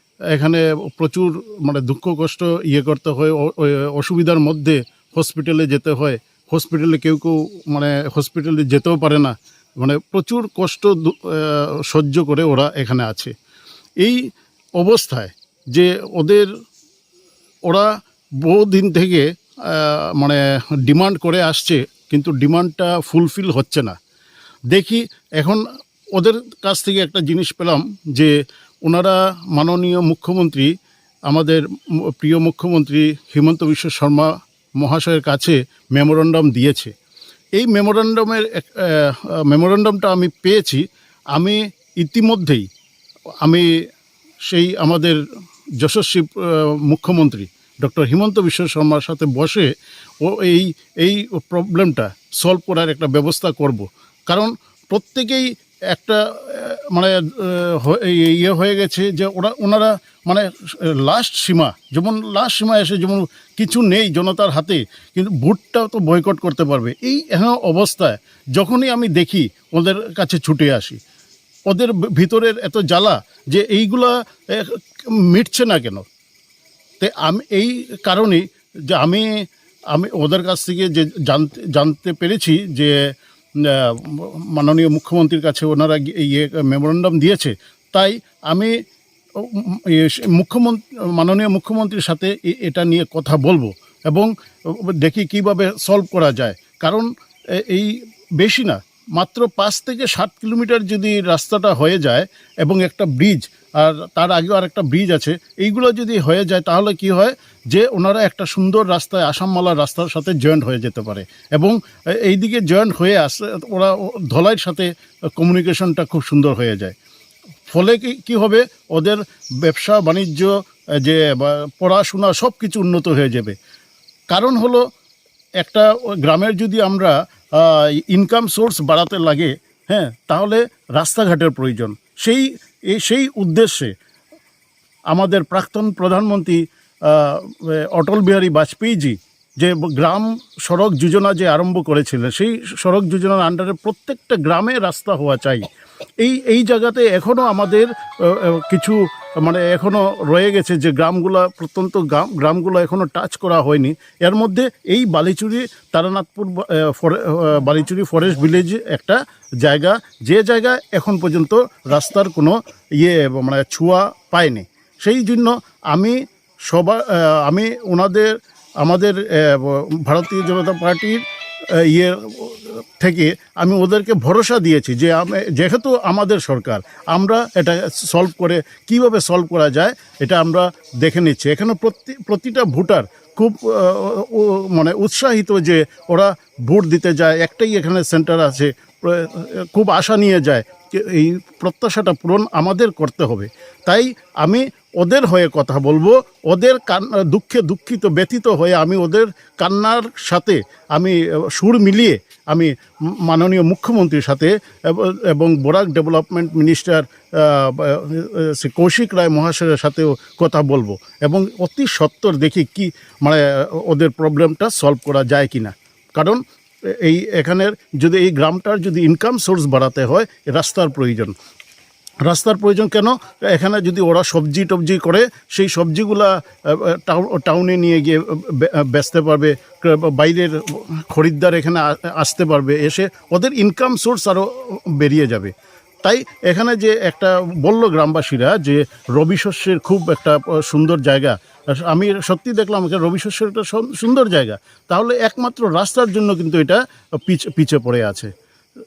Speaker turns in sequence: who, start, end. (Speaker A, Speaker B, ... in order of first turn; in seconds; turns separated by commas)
Speaker A: 0.3-13.3, Speaker A: 14.8-16.5, Speaker A: 18.4-23.9, Speaker A: 24.7-25.6, Speaker A: 26.1-28.3, Speaker A: 28.8-30.7, Speaker A: 31.3-34.3, Speaker A: 34.8-36.9, Speaker A: 37.6-40.8, Speaker A: 41.3-42.6, Speaker A: 44.5-45.2, Speaker A: 45.8-49.7, Speaker A: 50.2-71.0, Speaker A: 71.7-76.0, Speaker A: 77.0-82.9, Speaker A: 83.6-88.7, Speaker A: 89.4-116.9, Speaker A: 117.7-120.5, Speaker A: 121.0-123.5, Speaker A: 124.3-124.8, Speaker A: 125.6-133.9, Speaker A: 135.1-145.7, Speaker A: 146.2-166.2, Speaker A: 166.7-171.2, Speaker A: 171.8-202.7, Speaker A: 203.3-216.4, Speaker A: 217.0-221.3, Speaker A: 222.2-235.5, Speaker A: 236.0-248.3